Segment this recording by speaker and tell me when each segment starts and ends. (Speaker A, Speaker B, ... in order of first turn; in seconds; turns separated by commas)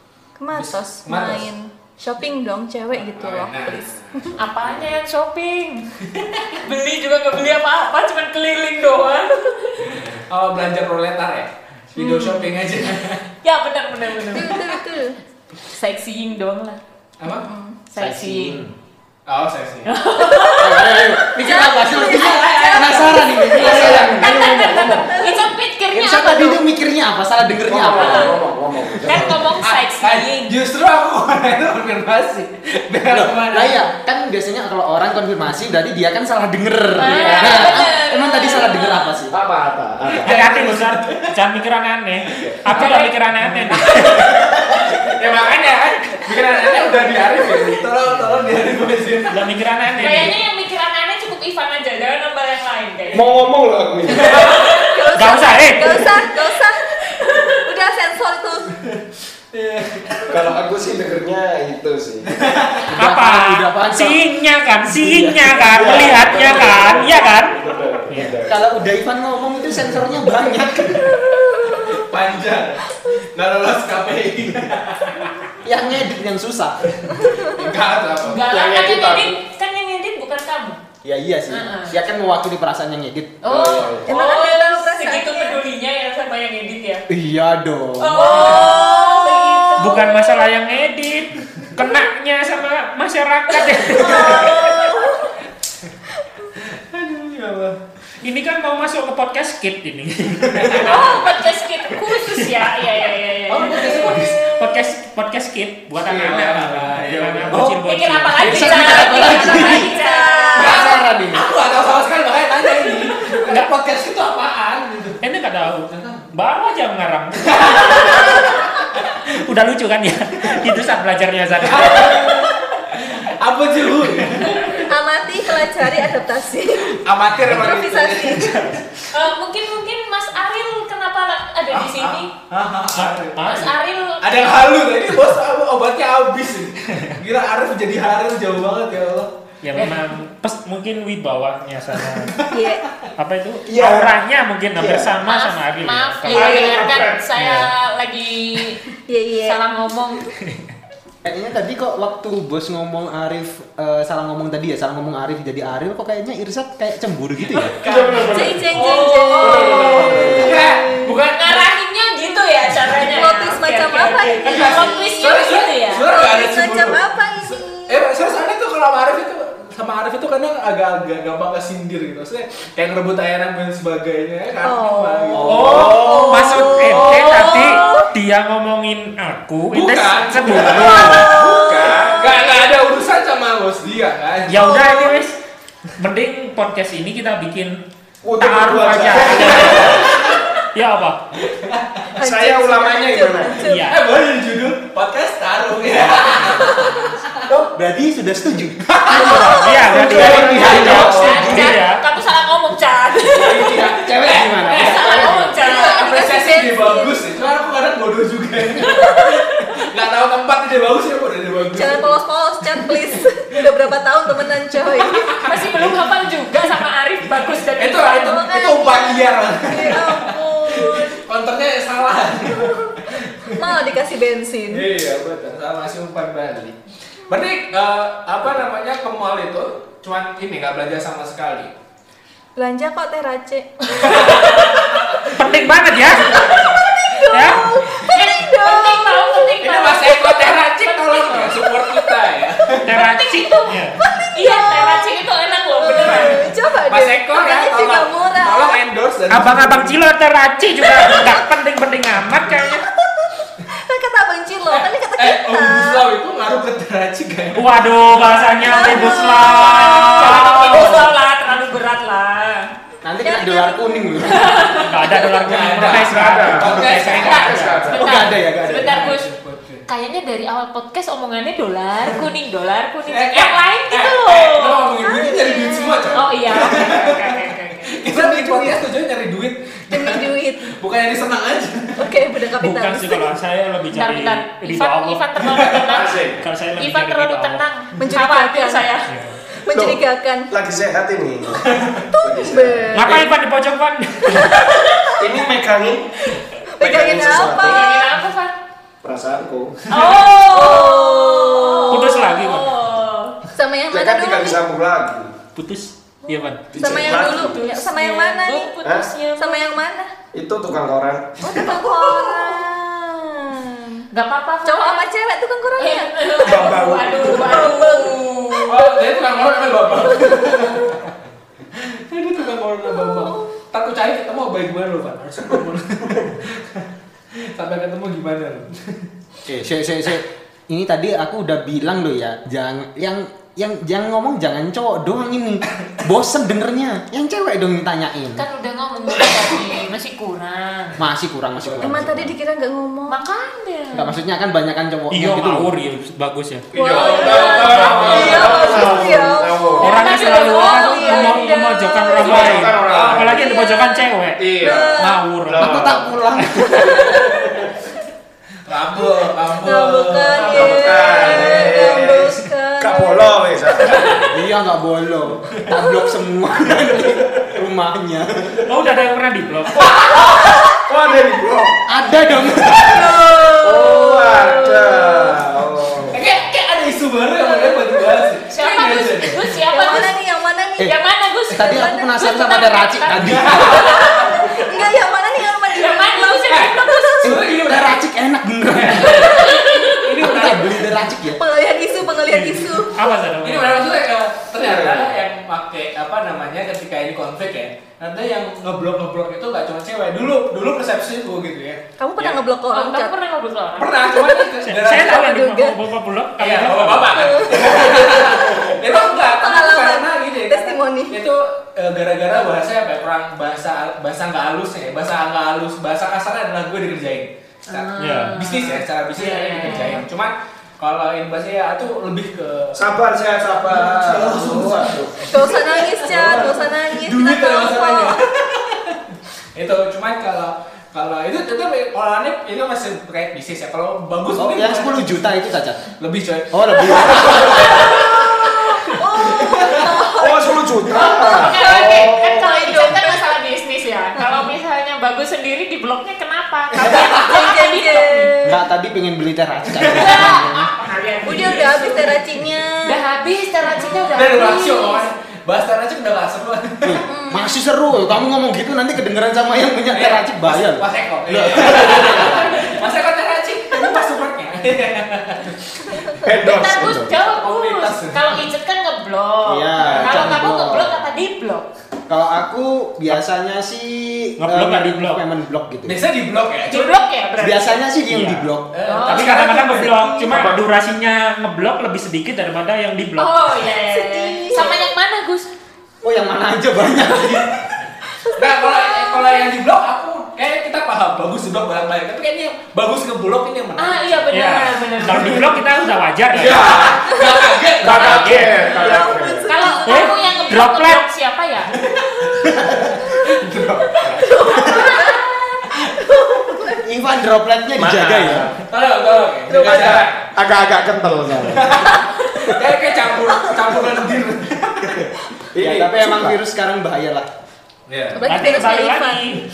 Speaker A: 0.4-4.3, Speaker B: 0.5-1.5, Speaker B: 3.0-4.8, Speaker C: 4.4-5.9, Speaker B: 6.1-6.4, Speaker C: 6.5-10.0, Speaker B: 9.9-13.2, Speaker A: 12.0-12.5, Speaker C: 13.4-14.7, Speaker A: 14.3-15.2, Speaker C: 15.6-16.8, Speaker B: 17.2-17.5, Speaker A: 17.3-17.8, Speaker C: 17.9-18.6, Speaker D: 18.0-18.7, Speaker B: 19.3-19.9, Speaker C: 19.9-26.6, Speaker D: 20.6-25.2, Speaker A: 21.4-25.5, Speaker E: 23.6-24.1, Speaker D: 25.9-28.5, Speaker E: 27.6-29.5, Speaker C: 27.9-28.4, Speaker D: 29.0-29.3, Speaker C: 29.1-30.6, Speaker B: 29.6-33.9, Speaker D: 33.1-39.3, Speaker C: 37.0-39.2, Speaker E: 37.1-37.8, Speaker E: 39.3-40.4, Speaker F: 40.2-44.4, Speaker B: 40.2-41.3, Speaker C: 42.7-43.1, Speaker B: 43.7-49.5, Speaker F: 49.3-50.4, Speaker C: 50.0-53.4, Speaker E: 53.1-54.4, Speaker B: 54.1-54.7, Speaker C: 54.2-55.0, Speaker A: 54.3-58.8, Speaker F: 55.1-56.2, Speaker B: 59.5-60.4, Speaker E: 60.3-62.4, Speaker B: 62.3-62.9, Speaker D: 63.0-64.2, Speaker F: 63.0-67.6, Speaker E: 65.2-68.7, Speaker F: 68.1-68.4, Speaker D: 68.5-71.2, Speaker A: 71.0-72.0, Speaker B: 71.7-75.5, Speaker D: 75.6-76.8, Speaker B: 76.9-78.5, Speaker C: 78.3-80.8, Speaker E: 78.5-79.4, Speaker D: 81.0-83.7, Speaker C: 81.5-82.0, Speaker C: 83.4-87.1, Speaker E: 83.5-84.1, Speaker A: 84.1-85.6, Speaker D: 87.1-88.7, Speaker C: 88.0-90.5, Speaker A: 88.2-90.0, Speaker F: 89.8-94.7, Speaker A: 94.0-95.4, Speaker C: 94.0-94.7, Speaker B: 96.6-97.8, Speaker F: 98.2-101.3, Speaker B: 100.5-101.1, Speaker C: 100.7-104.3, Speaker F: 102.0-102.9, Speaker B: 103.5-104.4, Speaker A: 103.6-104.9, Speaker F: 104.3-109.3, Speaker E: 106.0-106.4, Speaker B: 106.1-107.8, Speaker D: 107.4-107.7, Speaker C: 107.8-110.8, Speaker D: 108.4-109.9, Speaker A: 109.1-111.0, Speaker D: 110.5-111.5, Speaker B: 110.5-115.2, Speaker F: 113.4-113.7, Speaker F: 115.2-118.7, Speaker B: 115.9-116.2, Speaker B: 117.5-118.4, Speaker F: 119.3-122.5, Speaker B: 121.6-124.9, Speaker A: 124.7-128.7, Speaker B: 127.0-129.0, Speaker C: 129.1-132.3, Speaker B: 131.7-133.6, Speaker F: 132.9-133.7, Speaker C: 133.4-134.4, Speaker B: 134.2-139.9, Speaker F: 139.6-142.4, Speaker B: 142.0-143.0, Speaker A: 142.5-142.8, Speaker F: 143.2-146.9, Speaker E: 143.7-144.2, Speaker E: 144.8-145.2, Speaker C: 145.3-148.8, Speaker E: 146.3-147.2, Speaker F: 147.4-147.7, Speaker A: 149.1-149.6, Speaker C: 149.4-150.3, Speaker D: 151.2-157.8, Speaker B: 157.5-159.1, Speaker E: 157.8-160.7, Speaker A: 158.3-161.2, Speaker C: 158.7-166.1, Speaker B: 160.3-161.6, Speaker A: 162.9-165.4, Speaker B: 164.2-177.2, Speaker A: 166.1-168.1, Speaker A: 174.6-178.1, Speaker E: 175.3-176.2, Speaker F: 175.5-181.4, Speaker C: 177.3-177.7, Speaker B: 179.7-184.7, Speaker A: 180.7-182.6, Speaker F: 184.5-185.4, Speaker A: 184.6-185.2, Speaker F: 186.0-187.8, Speaker E: 188.2-190.4, Speaker F: 188.4-190.2, Speaker B: 189.3-190.4, Speaker F: 190.7-191.2, Speaker B: 191.5-192.1, Speaker A: 192.2-193.9, Speaker E: 192.2-193.6, Speaker F: 193.6-194.0, Speaker B: 193.9-197.3, Speaker D: 197.5-198.9, Speaker B: 198.9-201.2, Speaker A: 199.1-199.9, Speaker F: 199.1-202.0, Speaker E: 199.9-201.6, Speaker D: 199.9-201.7, Speaker C: 200.6-203.8, Speaker B: 203.2-212.2, Speaker D: 203.8-205.6, Speaker C: 204.7-206.1, Speaker A: 205.1-207.2, Speaker A: 208.8-209.4, Speaker A: 211.7-215.4, Speaker B: 212.8-213.2, Speaker B: 214.8-215.9, Speaker C: 215.4-218.5, Speaker B: 217.8-223.8, Speaker A: 218.1-221.2, Speaker A: 222.4-224.9, Speaker B: 224.7-226.8, Speaker B: 227.3-231.7, Speaker A: 232.6-234.8, Speaker B: 233.9-235.4, Speaker F: 235.3-236.5, Speaker A: 236.1-239.5, Speaker B: 236.3-236.7, Speaker F: 237.2-237.8, Speaker C: 238.1-241.7, Speaker B: 239.6-242.9, Speaker F: 242.8-244.0, Speaker C: 242.9-246.5, Speaker A: 244.0-245.1, Speaker A: 245.8-248.8, Speaker B: 246.0-250.0, Speaker F: 249.3-252.8, Speaker A: 250.8-251.4, Speaker A: 253.7-256.1, Speaker B: 254.7-258.4, Speaker F: 257.6-261.1, Speaker A: 258.5-260.9, Speaker C: 259.5-262.7, Speaker D: 263.0-264.7, Speaker A: 263.2-264.7, Speaker C: 264.2-265.2, Speaker F: 264.8-267.9, Speaker B: 265.4-269.9, Speaker E: 265.9-268.1, Speaker C: 267.2-269.3, Speaker D: 268.0-269.1, Speaker C: 269.9-274.8, Speaker B: 273.1-282.2, Speaker A: 274.8-276.3, Speaker C: 276.1-278.0, Speaker A: 278.1-278.8, Speaker A: 279.9-280.7, Speaker A: 282.0-283.3, Speaker F: 282.6-285.8, Speaker C: 283.9-286.2, Speaker B: 285.5-285.8, Speaker E: 285.9-286.4, Speaker F: 286.4-287.6, Speaker C: 286.8-289.1, Speaker A: 288.0-288.9, Speaker F: 289.1-289.4, Speaker A: 289.5-290.5, Speaker E: 289.7-290.0, Speaker E: 290.5-293.2, Speaker B: 291.7-292.0, Speaker A: 292.2-293.3, Speaker F: 292.9-294.8, Speaker A: 294.3-295.3, Speaker E: 295.2-296.1, Speaker E: 296.8-297.9, Speaker A: 296.8-298.1, Speaker C: 297.6-298.5, Speaker E: 299.0-299.9, Speaker C: 299.9-303.4, Speaker A: 300.1-302.3, Speaker F: 301.9-302.7, Speaker A: 303.5-304.6, Speaker E: 303.9-305.3, Speaker F: 305.6-306.7, Speaker A: 306.3-308.7, Speaker E: 306.7-307.6, Speaker C: 307.0-309.8, Speaker A: 309.4-310.1, Speaker E: 310.3-311.5, Speaker C: 311.4-312.6, Speaker A: 311.4-314.1, Speaker C: 314.1-315.1, Speaker A: 314.6-319.0, Speaker C: 315.8-318.8, Speaker E: 316.4-317.8, Speaker B: 318.7-321.1, Speaker A: 319.8-320.9, Speaker B: 321.8-326.9, Speaker A: 322.9-323.5, Speaker B: 327.5-329.1, Speaker D: 329.5-338.4, Speaker C: 338.4-341.0, Speaker D: 341.0-342.3, Speaker A: 341.8-343.2, Speaker C: 343.1-344.1, Speaker D: 343.9-345.7, Speaker F: 345.1-346.7, Speaker E: 346.7-349.9, Speaker A: 346.8-352.7, Speaker C: 346.9-348.9, Speaker B: 347.0-349.0, Speaker F: 347.6-348.6, Speaker C: 349.8-351.6, Speaker F: 349.8-355.9, Speaker E: 352.2-353.5, Speaker B: 352.3-353.2, Speaker A: 353.3-355.2, Speaker E: 354.4-356.2, Speaker D: 355.6-357.3, Speaker A: 356.6-357.5, Speaker B: 358.7-362.0, Speaker A: 359.5-364.2, Speaker E: 360.4-364.3, Speaker D: 364.3-368.6, Speaker A: 365.8-366.0, Speaker F: 368.7-370.0, Speaker B: 369.9-370.5, Speaker A: 370.2-370.8, Speaker E: 370.9-371.8, Speaker D: 371.9-373.1, Speaker A: 372.8-375.3, Speaker E: 373.6-376.2, Speaker B: 376.1-379.5, Speaker A: 377.4-378.2, Speaker C: 378.5-380.1, Speaker A: 379.7-380.9, Speaker C: 380.8-384.7, Speaker D: 381.5-383.7, Speaker A: 381.6-382.1, Speaker B: 383.2-384.2, Speaker A: 383.6-387.4, Speaker C: 385.7-387.2, Speaker B: 386.5-388.1, Speaker D: 387.2-389.4, Speaker B: 388.7-390.9, Speaker A: 389.0-390.6, Speaker C: 389.1-390.1, Speaker D: 390.2-391.4, Speaker A: 391.3-393.1, Speaker F: 392.2-393.9, Speaker B: 393.4-402.4, Speaker E: 394.6-395.1, Speaker A: 402.0-403.1, Speaker C: 402.7-404.0, Speaker B: 403.8-405.2, Speaker A: 404.0-405.8, Speaker F: 404.6-407.5, Speaker B: 406.4-422.9, Speaker A: 407.1-411.2, Speaker C: 417.7-420.0, Speaker F: 418.0-418.4, Speaker A: 419.6-420.0, Speaker E: 422.8-426.6, Speaker B: 423.6-435.2, Speaker A: 425.3-428.2, Speaker D: 434.4-435.9, Speaker B: 436.0-439.9, Speaker D: 436.5-437.8, Speaker A: 436.9-443.3, Speaker E: 440.1-442.6, Speaker C: 441.0-448.3, Speaker A: 444.2-444.5, Speaker A: 446.8-448.6, Speaker D: 448.4-450.7, Speaker B: 449.8-450.2, Speaker C: 449.9-452.2, Speaker A: 451.2-453.0, Speaker C: 452.8-455.1, Speaker A: 453.7-454.1, Speaker B: 454.1-457.0, Speaker D: 456.8-462.5, Speaker A: 457.1-457.6, Speaker B: 459.9-466.2, Speaker C: 461.8-462.8, Speaker E: 466.2-467.1, Speaker C: 466.4-471.7, Speaker D: 466.8-467.1, Speaker B: 467.1-468.4, Speaker D: 469.4-471.0, Speaker B: 469.8-470.2, Speaker D: 472.1-476.0, Speaker F: 474.4-475.2, Speaker B: 475.9-477.0, Speaker C: 476.7-477.8, Speaker D: 477.4-478.7, Speaker F: 478.1-478.5, Speaker B: 478.7-480.2, Speaker C: 478.9-479.5, Speaker F: 479.1-483.4, Speaker E: 480.3-480.6, Speaker C: 483.2-485.5, Speaker A: 483.8-484.9, Speaker D: 486.0-487.8, Speaker A: 488.3-489.5, Speaker B: 488.4-495.5, Speaker C: 493.8-495.6, Speaker F: 494.3-496.8, Speaker A: 494.7-494.9, Speaker B: 496.3-498.5, Speaker E: 496.4-497.1, Speaker A: 497.0-497.6, Speaker E: 497.8-499.5, Speaker F: 498.0-498.6, Speaker A: 498.5-500.6, Speaker C: 498.6-501.8, Speaker F: 499.8-501.0, Speaker B: 501.7-504.8, Speaker A: 503.9-506.8, Speaker C: 504.6-505.1, Speaker D: 506.8-508.5, Speaker E: 507.8-508.6, Speaker B: 508.6-510.3, Speaker E: 509.5-511.9, Speaker B: 511.5-515.1, Speaker E: 515.5-516.4, Speaker D: 515.6-517.3, Speaker B: 517.9-518.3, Speaker A: 518.1-519.4, Speaker F: 518.2-519.5